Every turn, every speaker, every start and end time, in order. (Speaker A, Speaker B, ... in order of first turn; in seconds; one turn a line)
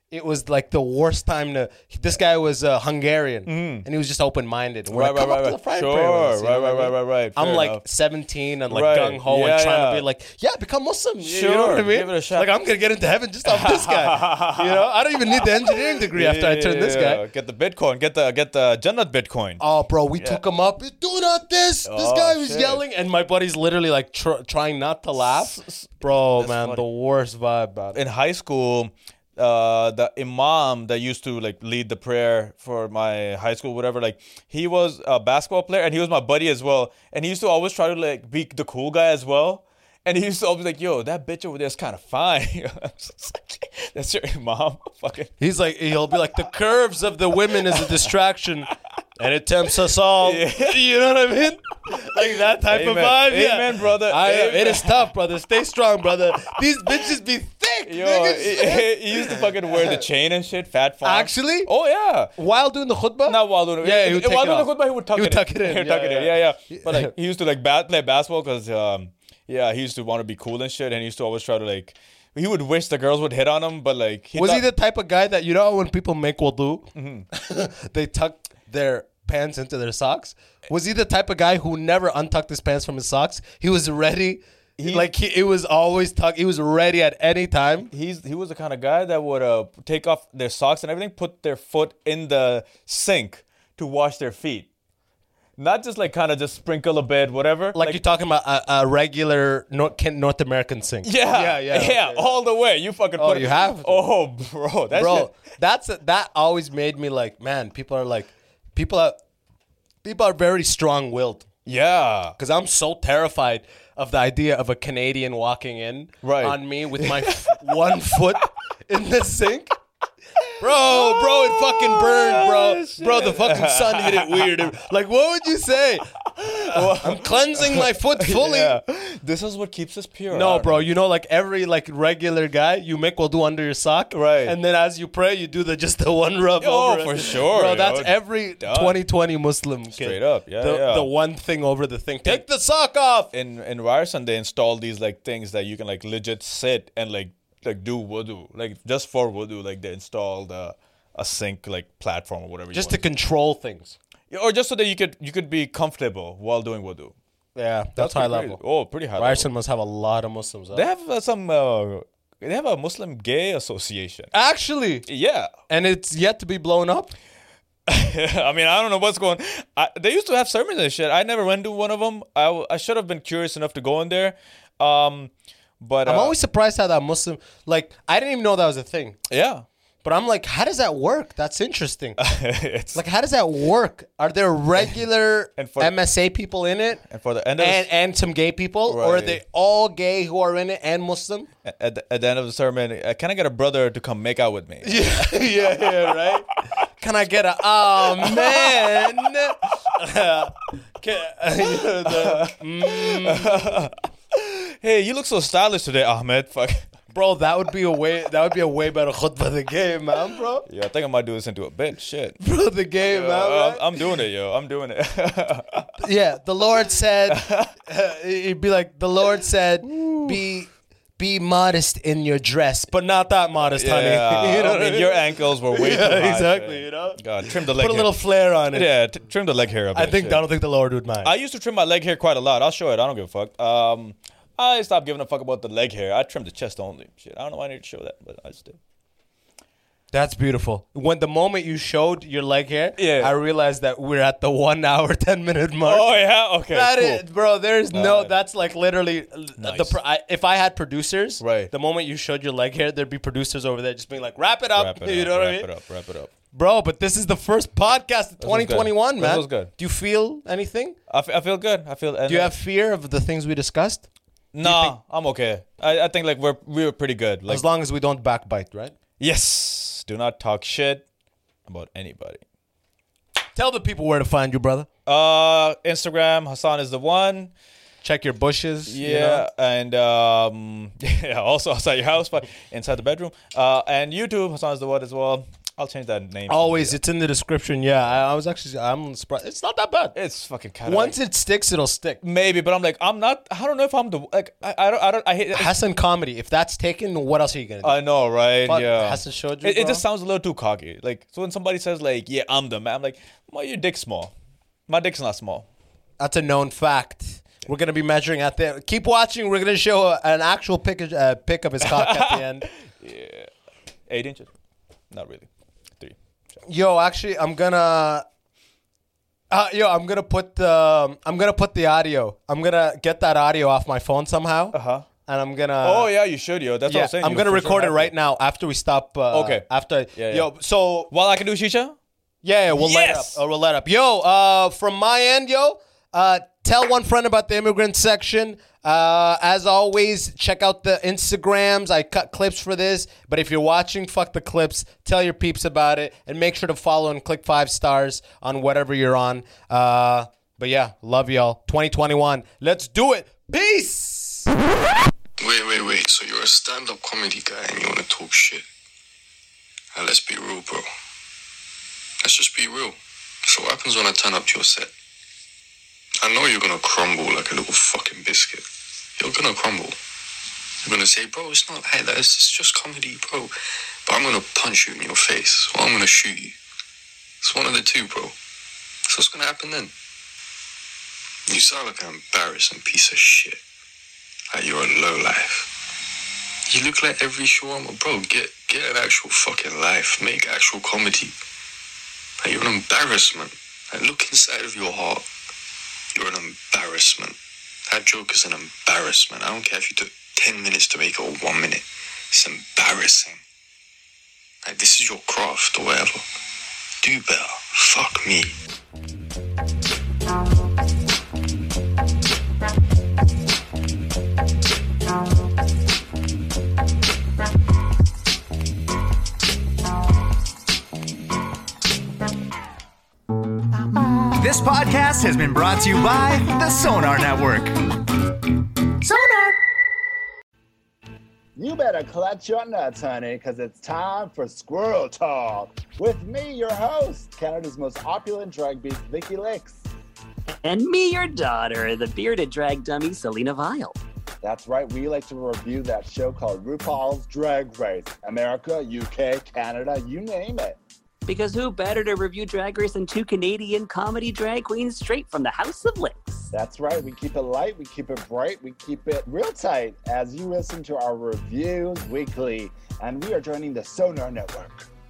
Speaker A: 0.1-17.2
Speaker B: 3.5-3.9
Speaker B: 4.9-7.8
Speaker B: 8.7-10.1
Speaker B: 11.2-12.5
Speaker B: 13.4-19.6
Speaker A: 19.6-28.0
Speaker B: 20.1-20.4
Speaker B: 21.8-22.8
Speaker B: 25.2-26.8
Speaker B: 27.9-45.3
Speaker A: 45.4-60.0
Speaker B: 47.5-48.1
Speaker B: 50.2-50.8
Speaker B: 51.9-55.1
Speaker B: 57.9-62.3
Speaker A: 61.0-61.7
Speaker A: 62.3-67.1
Speaker B: 63.2-74.6
Speaker A: 74.3-87.9
Speaker B: 76.9-77.3
Speaker B: 84.8-85.1
Speaker B: 87.9-94.7
Speaker B: 95.6-98.0
Speaker A: 97.7-102.4
Speaker B: 101.0-105.3
Speaker A: 103.2-104.1
Speaker A: 104.9-109.2
Speaker A: 110.0-111.5
Speaker B: 111.6-112.3
Speaker A: 112.4-119.8
Speaker B: 116.2-117.8
Speaker B: 120.5-124.7
Speaker A: 120.6-128.8
Speaker B: 126.2-130.9
Speaker A: 130.3-143.3
Speaker B: 134.1-134.6
Speaker B: 136.6-139.0
Speaker B: 139.9-141.1
Speaker B: 143.3-153.0
Speaker A: 152.7-153.9
Speaker B: 154.3-157.1
Speaker A: 157.6-158.6
Speaker B: 157.9-159.5
Speaker A: 159.2-160.8
Speaker B: 160.7-164.3
Speaker A: 164.3-165.1
Speaker B: 165.1-165.5
Speaker A: 165.7-167.1
Speaker B: 167.9-176.3
Speaker A: 176.0-179.2
Speaker B: 179.3-179.7
Speaker A: 180.0-182.2
Speaker B: 182.2-183.0
Speaker A: 182.9-187.0
Speaker B: 185.6-185.9
Speaker B: 187.0-187.9
Speaker A: 187.6-191.5
Speaker B: 188.9-189.4
Speaker B: 191.6-196.4
Speaker A: 194.8-203.8
Speaker B: 198.0-199.5
Speaker B: 201.6-206.9
Speaker A: 207.1-210.7
Speaker B: 210.6-212.4
Speaker A: 212.4-214.0
Speaker B: 213.0-215.9
Speaker A: 216.0-228.9
Speaker B: 217.3-217.7
Speaker B: 219.8-220.4
Speaker B: 223.7-228.1
Speaker B: 228.7-230.4
Speaker A: 229.9-231.3
Speaker B: 231.2-238.8
Speaker A: 240.1-246.1
Speaker B: 243.0-243.3
Speaker B: 245.8-247.2
Speaker A: 246.7-255.7
Speaker B: 247.9-248.3
Speaker B: 249.6-250.0
Speaker B: 251.4-251.7
Speaker B: 254.7-256.3
Speaker A: 256.5-261.0
Speaker B: 258.4-259.7
Speaker B: 261.1-262.6
Speaker A: 262.3-264.1
Speaker B: 264.5-267.6
Speaker A: 264.6-265.0
Speaker A: 267.5-268.9
Speaker B: 269.2-271.0
Speaker B: 271.7-272.4
Speaker A: 273.5-274.9
Speaker B: 275.1-277.5
Speaker A: 278.0-279.4
Speaker B: 278.9-287.0
Speaker A: 286.5-290.1
Speaker B: 290.1-291.2
Speaker A: 290.9-292.2
Speaker B: 292.2-295.7
Speaker A: 295.5-298.0
Speaker B: 297.8-304.3
Speaker A: 298.6-300.0
Speaker B: 304.9-305.7
Speaker A: 306.2-312.7
Speaker B: 311.8-313.5
Speaker B: 314.1-314.5
Speaker B: 315.1-316.2
Speaker A: 316.7-318.2
Speaker A: 319.5-326.1
Speaker B: 324.7-325.1
Speaker B: 325.8-328.1
Speaker A: 326.9-331.1
Speaker B: 329.3-330.5
Speaker B: 331.1-332.0
Speaker A: 332.4-354.5
Speaker B: 332.7-333.4
Speaker C: 355.4-358.6
Speaker C: 359.9-360.9
Speaker C: 362.2-364.9
Speaker C: 366.2-368.6
Speaker C: 369.2-369.9
Speaker C: 370.8-373.5
Speaker C: 374.1-376.6
Speaker C: 377.4-378.3
Speaker C: 379.1-379.9
Speaker C: 381.5-383.6
Speaker C: 384.5-385.7
Speaker C: 386.7-391.3
Speaker C: 392.4-395.2
Speaker C: 396.1-403.4
Speaker C: 404.6-406.2
Speaker C: 407.0-408.6
Speaker D: 424.1-427.8
Speaker E: 431.6-439.8
Speaker F: 440.6-444.0
Speaker E: 444.4-450.8
Speaker F: 451.2-456.5
Speaker E: 456.5-464.9